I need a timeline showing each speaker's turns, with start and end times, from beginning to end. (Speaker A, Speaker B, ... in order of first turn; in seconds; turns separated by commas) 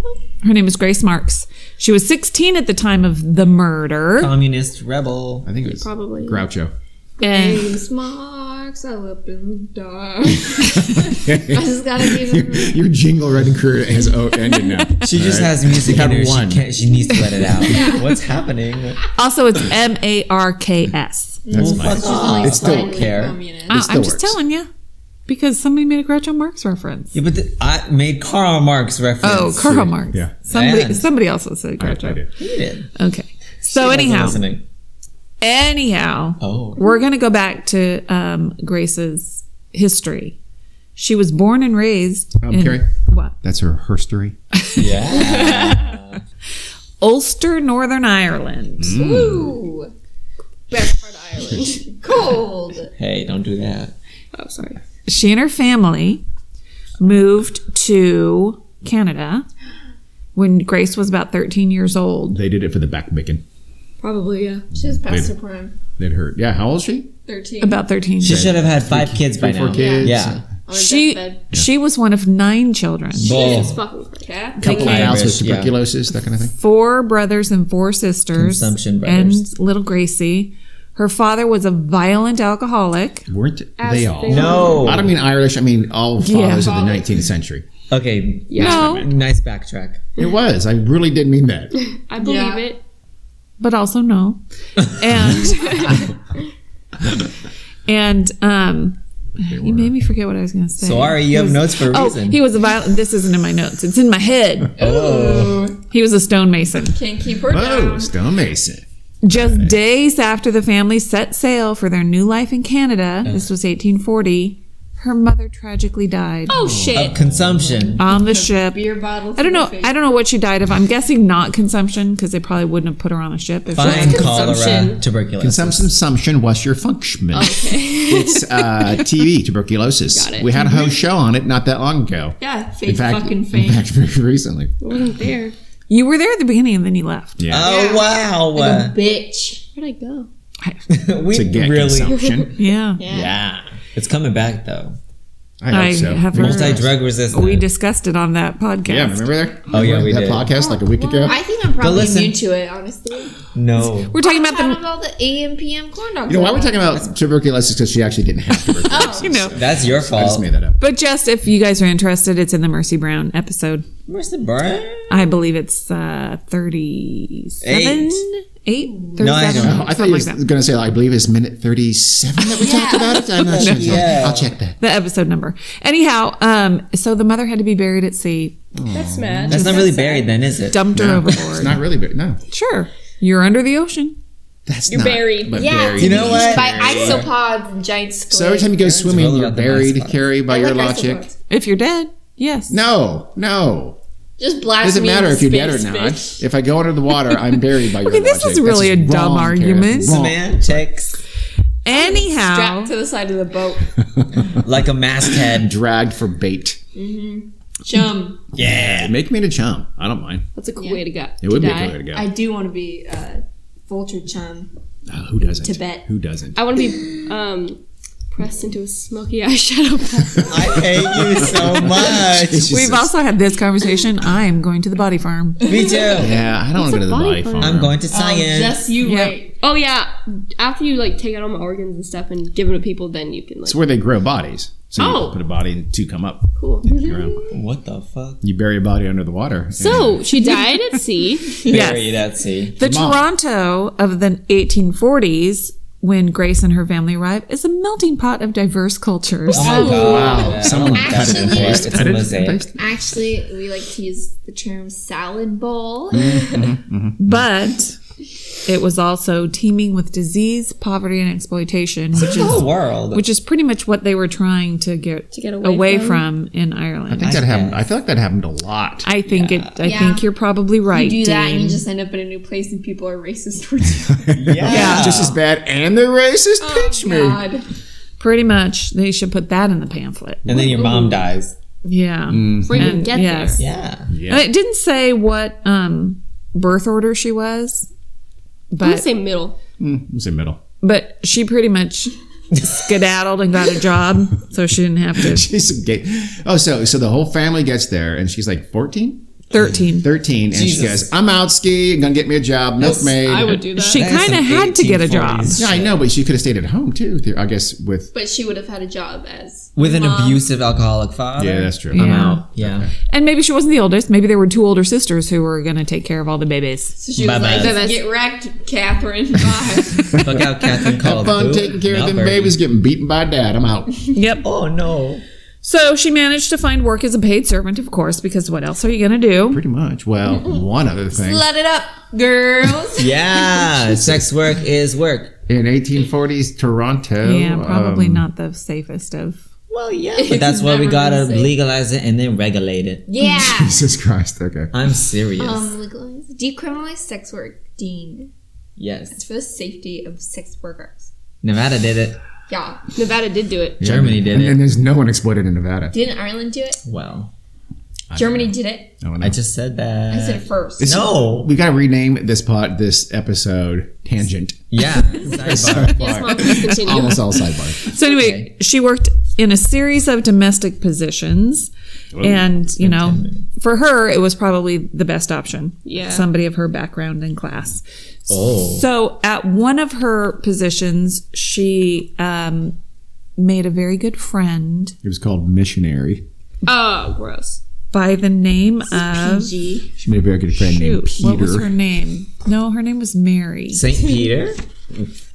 Speaker A: 0.4-4.3, Speaker B: 4.2-5.5, Speaker C: 5.5-6.7, Speaker D: 5.7-6.4, Speaker E: 7.2-12.8, Speaker A: 7.2-7.8, Speaker C: 10.7-16.8, Speaker B: 15.0-19.0, Speaker A: 17.1-17.9, Speaker E: 17.5-18.1, Speaker A: 19.2-21.4, Speaker E: 21.4-23.8, Speaker C: 21.5-24.4, Speaker B: 21.5-23.4, Speaker A: 23.7-24.7, Speaker A: 25.3-27.2, Speaker B: 27.1-29.9, Speaker A: 29.2-32.2, Speaker C: 30.0-30.3, Speaker B: 30.5-31.1, Speaker C: 31.8-32.3, Speaker B: 32.4-32.9, Speaker A: 33.0-34.4, Speaker B: 33.7-34.6, Speaker A: 35.4-40.4, Speaker B: 36.4-36.8, Speaker A: 41.0-43.3, Speaker C: 42.4-42.9, Speaker C: 43.4-44.4, Speaker A: 44.6-46.0, Speaker B: 44.8-46.2, Speaker A: 47.0-49.0, Speaker C: 48.8-49.6, Speaker E: 48.9-49.9, Speaker E: 50.7-52.9, Speaker B: 53.0-54.0, Speaker D: 54.3-54.8, Speaker A: 55.1-56.2, Speaker A: 57.0-59.5, Speaker A: 60.4-62.4, Speaker C: 62.3-63.4, Speaker D: 64.0-64.7, Speaker E: 64.7-65.8, Speaker C: 64.7-65.3, Speaker C: 66.0-67.1, Speaker E: 67.3-67.8, Speaker A: 67.6-68.5, Speaker B: 68.2-70.4, Speaker C: 68.2-70.4, Speaker E: 69.7-70.1, Speaker E: 70.7-71.4, Speaker A: 70.7-73.4, Speaker D: 73.2-74.6, Speaker B: 73.2-73.8, Speaker E: 74.2-75.1, Speaker A: 74.6-75.2, Speaker C: 74.6-76.5, Speaker B: 74.6-75.8, Speaker A: 76.5-83.3, Speaker B: 78.4-79.4, Speaker C: 83.3-87.7, Speaker D: 83.8-85.0, Speaker B: 84.3-85.1, Speaker A: 86.2-86.8, Speaker E: 86.6-87.0, Speaker B: 87.9-90.0, Speaker D: 88.5-88.9, Speaker A: 88.6-89.1, Speaker C: 90.2-91.8, Speaker D: 92.1-92.8, Speaker E: 92.2-92.7, Speaker A: 93.6-96.1, Speaker C: 95.2-96.0, Speaker A: 97.9-104.9, Speaker C: 99.4-99.9, Speaker B: 100.8-102.4, Speaker E: 104.8-105.8, Speaker B: 104.8-105.7, Speaker A: 105.8-107.0, Speaker E: 106.9-108.1, Speaker C: 107.5-109.8, Speaker A: 109.2-116.7, Speaker D: 116.5-117.2, Speaker C: 116.5-117.9, Speaker B: 116.9-118.0, Speaker A: 118.0-124.5, Speaker E: 118.1-120.0, Speaker B: 123.7-125.9, Speaker D: 123.8-125.0, Speaker C: 125.4-134.7, Speaker D: 127.4-128.5, Speaker D: 130.1-130.8, Speaker E: 132.4-133.9, Speaker D: 134.8-135.5, Speaker A: 135.9-137.4, Speaker C: 137.4-137.7, Speaker B: 137.5-139.0, Speaker E: 137.6-139.7, Speaker D: 139.8-140.3, Speaker B: 140.9-142.2, Speaker C: 141.3-142.6, Speaker D: 142.1-142.5, Speaker A: 142.6-143.0, Speaker E: 143.0-143.4, Speaker B: 143.1-145.0, Speaker C: 145.6-146.9, Speaker A: 145.7-149.3, Speaker B: 146.3-147.7, Speaker C: 148.9-151.4, Speaker B: 149.7-150.5, Speaker E: 150.9-153.4, Speaker D: 151.0-151.3, Speaker B: 151.8-152.4, Speaker B: 153.5-154.1, Speaker A: 153.8-154.8, Speaker E: 154.2-157.0, Speaker C: 156.3-160.8, Speaker A: 158.6-159.6, Speaker E: 158.9-159.4, Speaker B: 159.5-160.5, Speaker A: 160.8-163.9, Speaker B: 164.1-165.2, Speaker A: 165.1-170.5, Speaker B: 167.6-168.2, Speaker E: 168.9-169.3, Speaker B: 169.2-169.9, Speaker C: 169.5-174.8, Speaker E: 172.4-173.3, Speaker B: 173.4-174.5, Speaker A: 173.6-174.2, Speaker A: 174.8-178.6, Speaker C: 178.8-179.7, Speaker D: 178.9-180.2, Speaker B: 179.5-180.9, Speaker A: 179.6-179.9, Speaker A: 180.7-181.8, Speaker C: 180.9-182.4, Speaker A: 182.5-184.2, Speaker C: 184.7-187.3, Speaker D: 184.9-186.2, Speaker E: 185.5-188.8, Speaker B: 185.7-187.3, Speaker C: 188.3-191.3, Speaker B: 188.8-190.2, Speaker E: 190.5-191.3, Speaker A: 191.5-192.8, Speaker C: 192.7-194.0, Speaker E: 194.4-196.0, Speaker C: 194.8-200.9, Speaker D: 195.7-196.4, Speaker A: 198.0-200.2, Speaker B: 200.0-201.1, Speaker A: 201.8-202.9, Speaker E: 201.9-203.9, Speaker B: 204.5-205.7, Speaker C: 205.3-206.8, Speaker E: 206.9-208.4, Speaker B: 208.6-209.1, Speaker C: 208.6-210.5, Speaker D: 210.6-212.0, Speaker C: 211.4-212.3, Speaker E: 212.1-214.7, Speaker C: 215.1-216.6, Speaker E: 215.4-216.1, Speaker D: 216.6-217.8, Speaker D: 218.3-220.8, Speaker B: 220.5-222.8, Speaker C: 220.9-223.1, Speaker A: 222.7-225.7, Speaker E: 225.6-226.3, Speaker B: 225.7-226.4, Speaker C: 226.1-228.0, Speaker D: 226.7-227.9, Speaker B: 227.6-228.8, Speaker E: 228.1-229.5, Speaker A: 229.0-229.4, Speaker D: 229.6-233.8, Speaker C: 233.7-237.5, Speaker E: 235.0-235.4, Speaker D: 236.6-237.0, Speaker B: 237.5-238.4, Speaker C: 238.4-240.2, Speaker D: 239.8-241.6, Speaker B: 241.6-242.8, Speaker A: 241.7-242.2, Speaker A: 242.8-249.9, Speaker C: 242.8-243.2, Speaker B: 249.5-252.7, Speaker D: 249.5-250.6, Speaker E: 249.6-252.2, Speaker C: 250.0-252.8, Speaker E: 252.7-256.7, Speaker C: 256.1-257.4, Speaker A: 257.2-258.0, Speaker A: 258.6-267.4, Speaker B: 262.2-263.2, Speaker C: 262.2-262.7, Speaker D: 265.3-266.3, Speaker C: 267.1-269.1, Speaker B: 267.2-267.8, Speaker A: 269.1-271.8, Speaker B: 269.3-270.0, Speaker E: 269.8-270.3, Speaker E: 270.9-274.4, Speaker C: 274.1-277.4, Speaker B: 274.4-275.4, Speaker A: 274.7-275.2, Speaker E: 276.6-277.6, Speaker A: 278.2-280.5, Speaker B: 280.5-281.6, Speaker E: 280.5-281.2, Speaker A: 281.9-283.6, Speaker C: 282.3-282.9, Speaker D: 282.6-283.6, Speaker B: 283.6-284.1, Speaker C: 284.1-284.5, Speaker A: 284.3-287.9, Speaker A: 288.7-289.1, Speaker D: 288.8-289.6, Speaker C: 289.8-290.6, Speaker A: 290.8-295.5, Speaker C: 295.2-299.2, Speaker A: 299.5-300.1, Speaker C: 299.8-303.6, Speaker B: 300.5-301.1, Speaker B: 302.8-303.1, Speaker D: 303.0-304.0, Speaker A: 303.7-305.6, Speaker B: 303.8-306.0, Speaker C: 305.6-308.1, Speaker E: 308.1-310.4, Speaker B: 309.8-312.9, Speaker C: 311.4-312.9, Speaker A: 311.9-312.4, Speaker A: 313.1-317.0, Speaker E: 317.0-320.2, Speaker B: 317.2-317.9, Speaker D: 317.5-318.1, Speaker B: 320.2-322.6, Speaker C: 320.2-320.4, Speaker C: 321.0-323.9, Speaker A: 324.1-324.4, Speaker B: 324.4-325.2, Speaker A: 325.6-329.6, Speaker C: 329.5-331.4, Speaker E: 331.1-333.6, Speaker B: 333.0-335.4, Speaker C: 334.0-334.3, Speaker C: 335.5-338.3, Speaker A: 337.2-339.4, Speaker B: 339.7-343.1, Speaker E: 340.2-341.5, Speaker E: 343.1-343.9, Speaker C: 343.2-344.7, Speaker B: 344.7-345.7, Speaker E: 345.4-348.3, Speaker B: 348.8-349.2, Speaker E: 349.1-351.1, Speaker B: 351.4-352.2, Speaker E: 352.5-352.9, Speaker D: 352.9-353.8, Speaker B: 353.8-354.6, Speaker C: 353.8-356.0, Speaker E: 355.9-356.8, Speaker B: 356.9-357.3, Speaker C: 358.1-359.4, Speaker E: 358.1-358.9, Speaker B: 359.2-361.5, Speaker E: 360.1-361.1, Speaker C: 360.8-367.9, Speaker B: 364.7-366.6, Speaker D: 365.7-367.2, Speaker A: 367.8-382.8, Speaker B: 368.0-368.5, Speaker C: 372.1-372.5, Speaker B: 372.8-373.5, Speaker D: 375.9-376.3, Speaker B: 378.3-378.9, Speaker A: 383.4-385.0, Speaker C: 385.0-386.2, Speaker D: 386.6-387.6, Speaker A: 387.9-389.6, Speaker E: 388.9-389.9, Speaker C: 390.0-391.7, Speaker A: 390.6-393.8, Speaker B: 393.7-395.1